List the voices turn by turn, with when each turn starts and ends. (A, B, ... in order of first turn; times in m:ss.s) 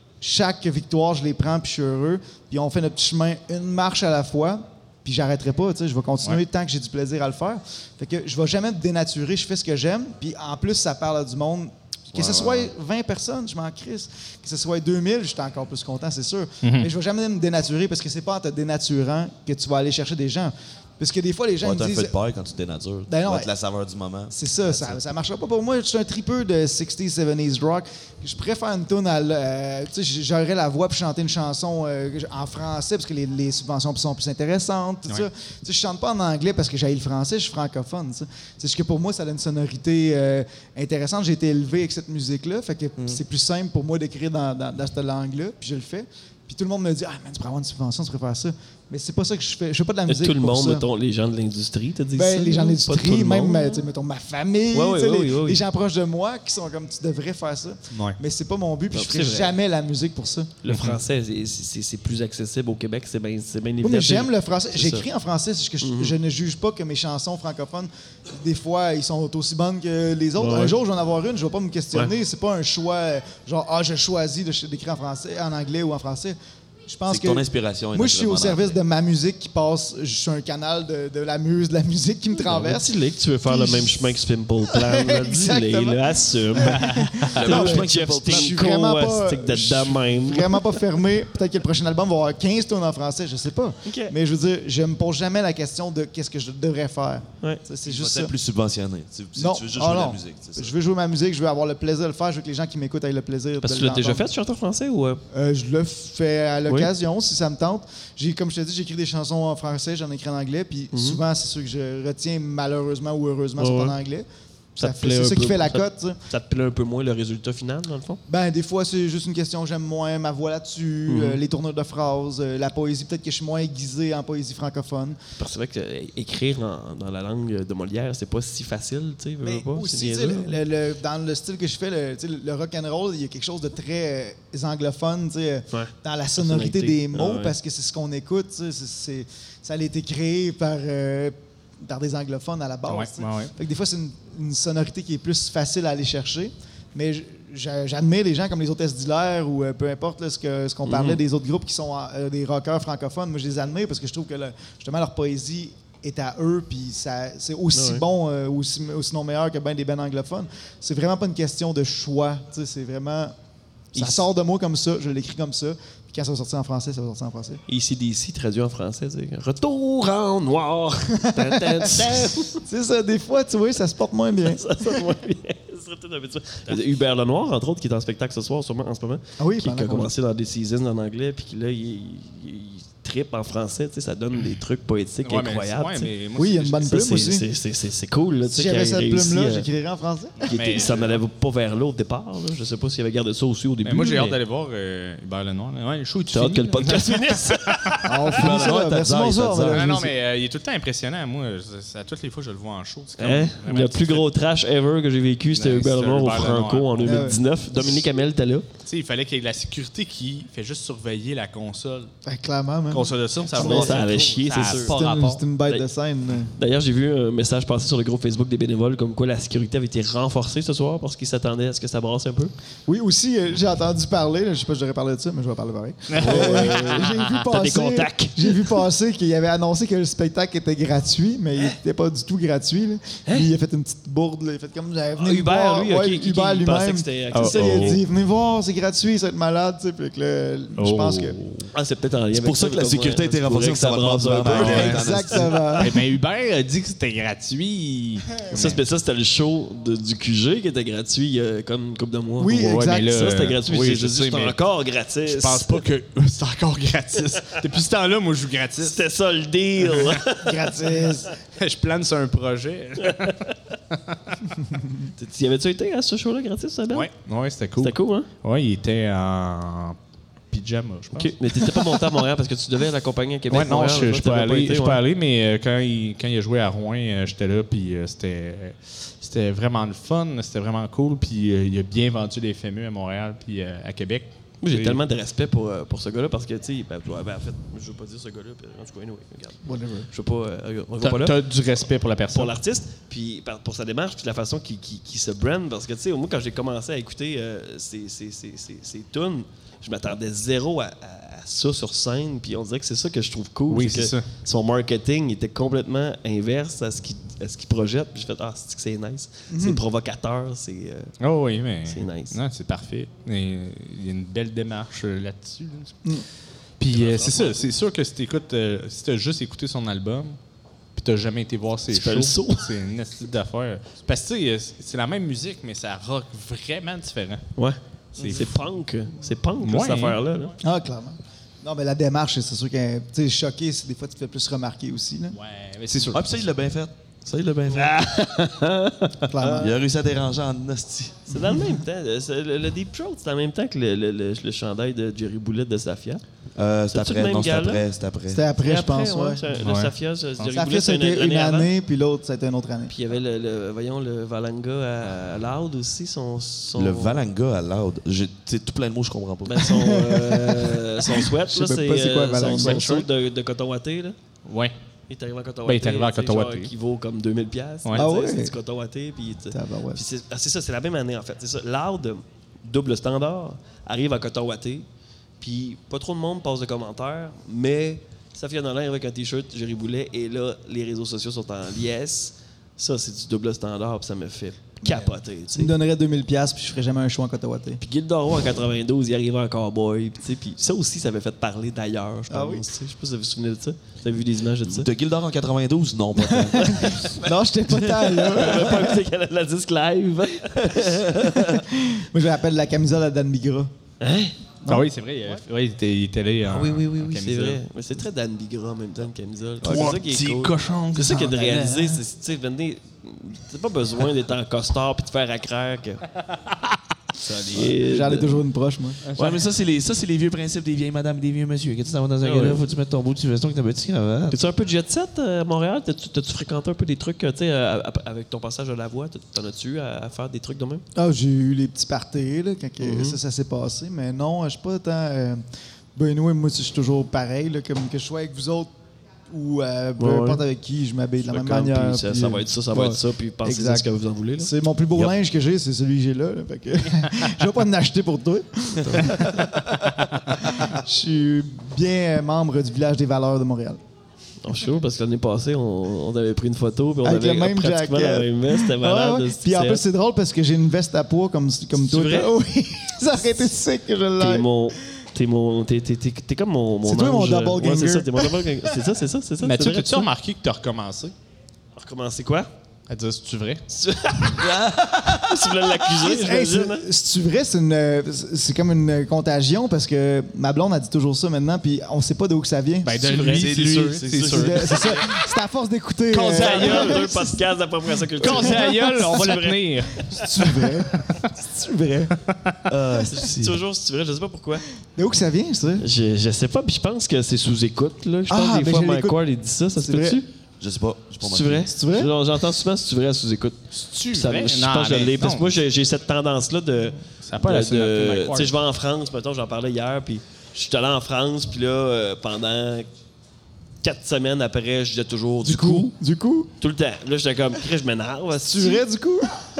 0:00.2-0:22.1 A
0:12.1-0:12.7 B
0:16.6-0:16.9 C
0:21.6-0:25.1 B
0:23.1-0:23.5 A
0:24.3-0:50.8 A
0:50.1-0:53.8 D
0:52.2-1:00.5 A
0:54.7-0:55.6 D
0:57.9-0:58.2 C
0:58.9-0:59.5 D
1:00.6-1:05.1 D
1:00.7-1:01.0 C
1:03.8-1:22.9 A
1:05.8-1:06.2 D
1:10.4-1:10.7 D
1:17.1-1:18.8 B
1:22.4-1:30.8 D
1:23.4-1:24.2 A
1:24.7-1:38.3 A
1:26.6-1:27.1 C
1:27.3-1:28.6 B
1:33.8-1:34.1 D
1:37.8-1:40.7 B
1:39.4-1:44.2 A
1:43.6-1:45.2 D
1:45.3-1:54.2 A
1:46.6-1:46.9 D
1:50.9-1:51.2 D
1:53.6-1:54.0 D
1:54.8-1:58.2 D
1:54.8-1:56.2 A
1:58.3-2:05.2 A
2:01.1-2:01.4 D
2:05.4-2:10.6 D
2:09.4-2:43.3 A
2:15.7-2:17.5 D
2:22.8-2:23.5 C
2:30.8-2:31.2 D
2:37.7-2:38.0 D
2:43.9-2:44.2 D
2:43.9-2:47.6 A
2:47.7-2:52.6 D
2:51.2-2:55.1 A
2:54.4-3:06.1 D
2:59.4-3:00.1 A
3:05.2-3:07.3 C
3:06.4-3:07.4 A
3:06.9-3:09.7 D
3:08.5-3:10.4 A
3:10.4-3:11.2 C
3:10.4-3:14.4 D
3:13.8-3:18.6 C
3:16.3-3:18.1 D
3:18.0-3:20.1 A
3:18.3-3:20.0 B
3:19.7-3:24.3 C
3:23.2-3:28.7 D
3:25.5-3:27.3 C
3:27.0-3:27.4 A
3:28.8-3:32.1 C
3:32.2-3:36.5 A
3:32.9-3:35.4 C
3:33.5-3:35.0 D
3:36.5-3:42.5 D
3:42.9-4:01.4 A
3:46.1-3:47.3 C
3:46.2-3:48.8 D
3:55.2-3:58.0 D
3:57.3-3:58.0 C
4:00.8-4:01.7 C
4:01.7-4:05.4 D
4:02.3-4:05.8 B
4:04.5-4:06.0 A
4:04.5-4:05.0 C
4:05.8-4:08.7 C
4:08.2-4:08.8 A
4:08.5-4:15.8 D
4:12.4-4:13.2 A
4:12.5-4:14.6 C
4:15.2-4:19.0 C
4:18.8-4:21.1 D
4:19.8-4:20.2 C
4:20.4-4:21.3 A
4:21.5-4:24.6 C
4:23.0-4:23.3 D
4:25.2-4:27.1 D
4:26.9-4:30.0 C
4:27.8-4:28.3 D
4:30.5-4:31.8 C
4:31.2-4:35.0 D
4:33.5-4:45.0 C
4:44.6-4:51.4 D
4:49.6-4:50.1 A
4:51.0-4:52.6 C
4:52.3-5:11.1 D
5:03.7-5:04.2 C
5:09.5-5:09.8 A
5:11.2-5:16.0 C
5:11.8-5:12.4 D
5:16.8-5:20.4 C
5:16.9-5:17.6 D
5:20.9-5:27.5 C
5:21.9-5:22.7 D
5:27.6-5:30.5 D
5:28.1-5:28.7 C
5:28.2-5:28.4 B
5:29.6-5:30.2 C
5:30.6-5:35.4 A
5:35.3-5:36.2 C
5:35.9-5:36.2 A
5:36.1-5:38.0 B
5:37.7-5:39.6 D
5:39.3-5:39.7 A
5:39.6-5:41.4 B
5:41.3-5:46.2 D
5:41.4-5:41.7 A
5:46.6-5:48.4 B
5:46.9-5:47.8 D
5:48.3-5:49.4 A
5:48.6-5:51.7 D
5:49.6-5:50.5 C
5:50.5-5:52.9 A
5:52.9-5:57.2 D
5:56.7-5:59.8 B
5:59.4-6:04.2 D
5:59.7-6:02.8 A
6:02.5-6:03.1 C
6:04.4-6:04.7 C
6:05.1-6:14.9 D
6:05.6-6:06.7 C
6:07.9-6:08.5 A
6:09.5-6:10.0 A
6:15.4-6:25.7 D
6:24.8-6:27.8 A
6:27.8-6:34.9 D
6:32.3-6:32.7 A
6:34.6-6:37.0 B
6:36.3-6:39.0 A
6:36.6-6:41.6 D
6:41.1-6:43.7 A
6:44.0-6:44.4 D
6:44.6-6:47.6 C
6:46.4-6:56.0 D
6:49.6-6:51.7 B
6:49.6-6:51.8 C
6:57.2-6:58.4 D
6:57.4-6:59.0 A
6:59.1-7:04.4 B
7:02.2-7:02.6 D
7:04.3-7:10.8 D
7:11.0-7:15.4 A
7:12.8-7:13.2 D
7:16.0-7:18.7 A
7:19.3-7:29.9 A
7:20.0-7:20.4 D
7:21.2-7:24.5 D
7:28.7-7:29.5 D
7:30.4-7:33.8 A
7:34.4-7:39.8 D
7:37.0-7:44.5 A
7:41.8-7:42.3 D
7:44.2-7:50.1 D
7:46.8-7:48.5 A
7:49.4-7:51.1 C
7:51.8-7:52.5 D
7:52.9-7:53.6 C
7:53.7-7:56.8 D
7:54.4-7:55.6 B
7:55.9-8:02.9 A
8:02.8-8:05.0 C
8:03.0-8:05.1 D
8:03.3-8:04.2 B
8:04.2-8:07.4 A
8:06.1-8:07.1 C
8:06.4-8:10.2 D
8:08.2-8:08.8 A
8:08.2-8:10.7 C
8:10.1-8:12.2 A
8:12.3-8:12.6 C
8:12.7-8:13.6 B
8:13.1-8:14.6 D
8:14.9-8:15.9 A
8:15.8-8:20.3 D
8:18.3-8:19.2 A
8:19.8-8:20.2 A
8:20.6-8:21.7 B
8:21.2-8:32.9 D
8:21.7-8:22.1 A
8:23.7-8:25.5 C
8:27.2-8:28.5 C
8:33.8-8:35.9 D
8:35.4-8:36.5 A
8:36.6-8:38.8 D
8:38.4-8:39.3 A